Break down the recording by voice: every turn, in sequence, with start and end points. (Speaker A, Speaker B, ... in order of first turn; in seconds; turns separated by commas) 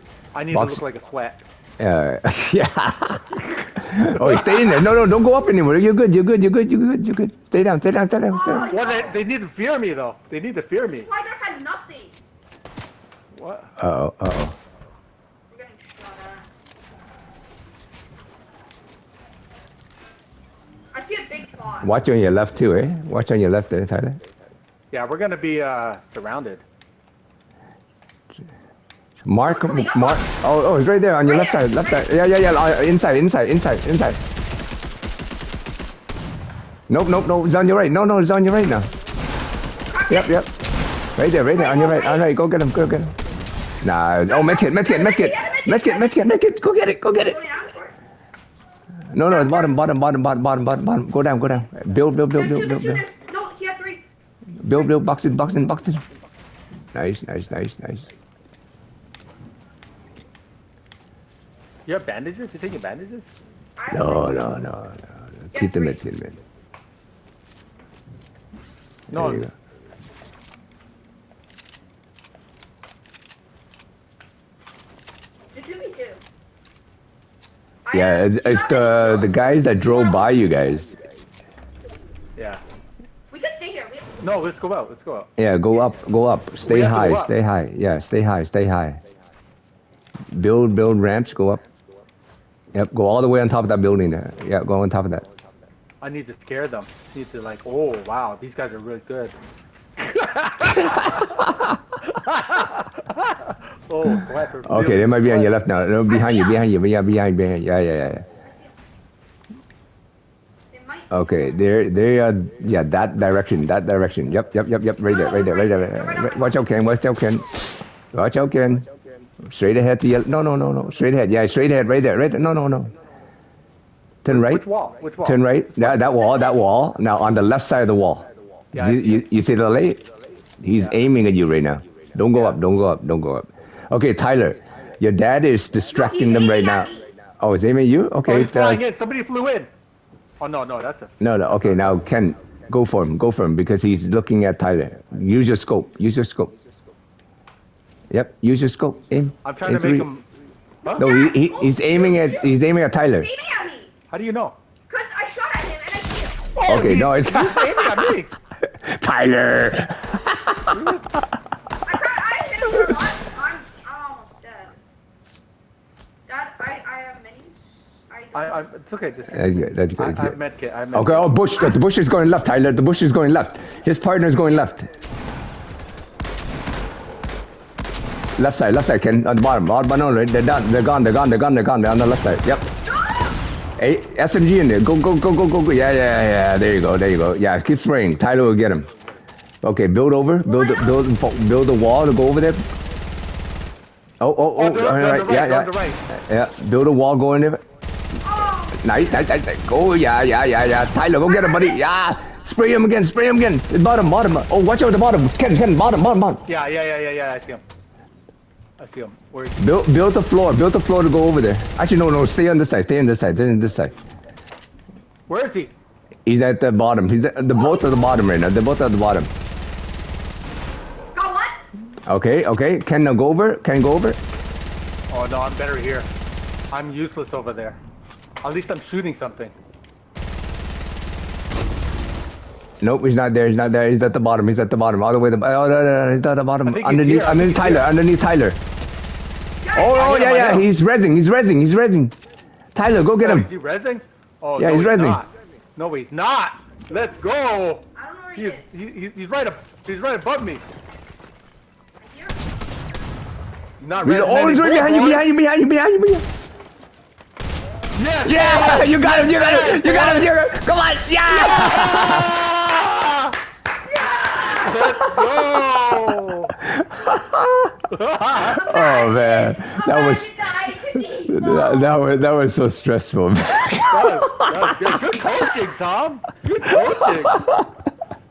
Speaker A: 0.3-1.4, Speaker B: 0.5-0.8, Speaker B: 1.8-8.8, Speaker A: 4.1-4.4, Speaker C: 4.5-4.8, Speaker C: 8.3-9.2, Speaker A: 8.6-11.1, Speaker C: 11.0-12.2, Speaker A: 13.3-13.7, Speaker B: 13.8-14.6, Speaker C: 15.5-16.5, Speaker C: 20.9-21.9, Speaker B: 21.8-24.2, Speaker A: 24.9-26.6, Speaker B: 29.2-34.2, Speaker C: 29.4-30.3, Speaker C: 31.2-32.1, Speaker B: 36.9-38.9, Speaker C: 39.9-40.4, Speaker B: 40.1-40.5, Speaker B: 41.1-43.1, Speaker C: 41.5-42.3, Speaker B: 43.8-47.4, Speaker C: 44.2-46.3, Speaker C: 47.1-47.9, Speaker B: 49.1-53.0, Speaker C: 49.3-49.8, Speaker C: 52.3-54.0, Speaker B: 54.6-56.0, Speaker B: 56.9-58.1, Speaker A: 61.9-63.4, Speaker C: 63.8-64.7, Speaker B: 63.9-66.4, Speaker C: 65.5-66.0, Speaker B: 69.1-69.5, Speaker A: 69.1-69.6, Speaker C: 75.5-76.2, Speaker C: 77.8-80.3, Speaker B: 77.9-81.0, Speaker A: 82.3-82.6, Speaker C: 83.3-84.4, Speaker A: 84.2-85.3, Speaker B: 85.4-89.0, Speaker A: 86.6-87.3, Speaker B: 90.3-91.6, Speaker B: 92.7-95.2, Speaker A: 96.0-99.4, Speaker A: 100.0-101.4, Speaker A: 102.0-105.6, Speaker B: 104.7-108.2, Speaker C: 106.1-106.6, Speaker C: 108.4-108.7, Speaker C: 110.7-111.6, Speaker B: 111.1-117.5, Speaker C: 115.0-116.6, Speaker B: 118.1-118.9, Speaker B: 119.5-122.9, Speaker B: 124.2-124.6, Speaker A: 124.3-126.1, Speaker B: 125.2-130.0, Speaker C: 126.1-126.7, Speaker A: 128.7-129.3, Speaker B: 130.6-138.8, Speaker A: 132.3-132.6, Speaker C: 135.9-137.1, Speaker A: 138.2-139.7, Speaker A: 140.4-142.0, Speaker B: 141.2-146.5, Speaker B: 148.1-150.1, Speaker A: 149.4-150.2, Speaker A: 150.8-151.1, Speaker B: 150.9-153.3, Speaker C: 151.0-153.9, Speaker A: 154.1-154.6, Speaker C: 154.9-156.5, Speaker A: 156.5-158.3, Speaker B: 156.7-158.1, Speaker B: 158.7-160.8, Speaker A: 160.7-161.1, Speaker C: 161.8-164.8, Speaker C: 166.3-168.7, Speaker A: 168.3-171.4, Speaker B: 169.3-170.4, Speaker B: 170.9-174.9, Speaker B: 178.4-182.7, Speaker C: 182.8-183.4, Speaker B: 183.8-188.9, Speaker B: 189.6-192.7, Speaker C: 190.4-191.1, Speaker B: 194.2-197.6, Speaker A: 194.6-196.0, Speaker C: 198.2-198.8, Speaker B: 198.7-206.4, Speaker C: 201.2-201.8, Speaker A: 206.5-207.6, Speaker A: 208.8-209.7, Speaker B: 209.6-213.9, Speaker A: 215.3-215.7, Speaker B: 216.2-219.3, Speaker C: 217.5-218.2, Speaker C: 221.1-221.6, Speaker B: 222.1-224.2, Speaker A: 225.1-226.1, Speaker A: 226.7-227.8, Speaker A: 228.4-229.5, Speaker B: 232.8-238.6, Speaker A: 236.6-237.9, Speaker C: 239.6-240.2, Speaker B: 239.7-242.1, Speaker A: 239.8-240.7, Speaker B: 242.7-243.5, Speaker A: 243.2-250.6, Speaker B: 244.6-245.2, Speaker C: 247.9-248.7, Speaker C: 252.0-252.5, Speaker A: 253.8-255.3, Speaker B: 254.0-256.2, Speaker A: 257.9-260.3, Speaker B: 258.2-262.5, Speaker C: 261.3-262.5, Speaker A: 262.1-263.4, Speaker C: 263.8-265.0, Speaker A: 264.3-266.5, Speaker B: 266.7-267.7, Speaker A: 267.9-268.7, Speaker C: 268.5-272.2, Speaker B: 268.5-274.9, Speaker A: 273.9-277.5, Speaker B: 277.3-277.6